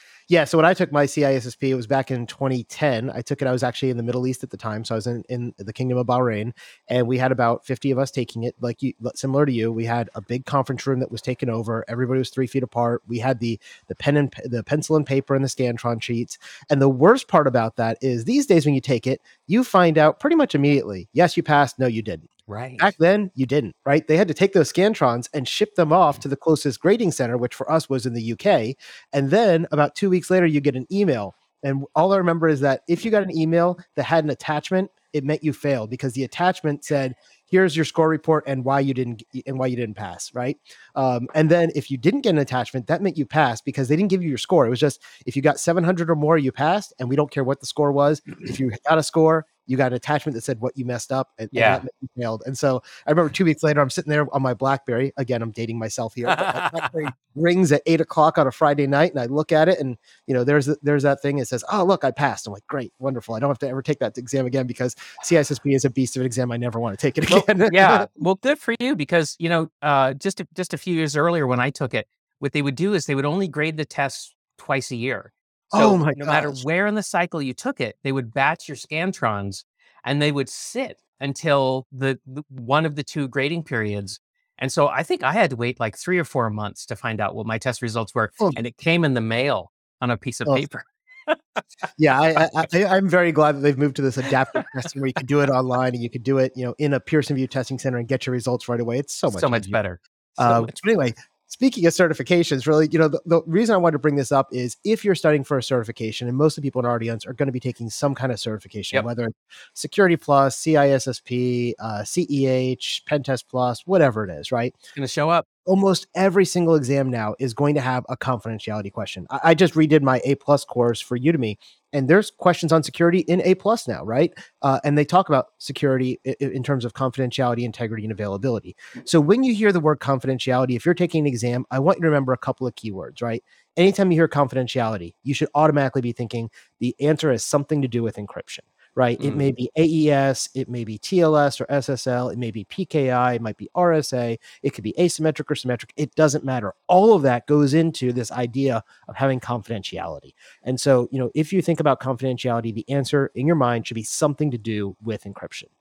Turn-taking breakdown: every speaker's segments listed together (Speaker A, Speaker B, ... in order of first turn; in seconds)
Speaker A: 0.3-68.1, 75.7-76.6, 92.0-99.8, 100.4-114.8, 115.7-155.7
Speaker B: 22.5-22.9, 51.5-51.8, 56.3-56.9, 67.3-91.4, 99.3-100.7, 115.0-115.5, 139.2-139.5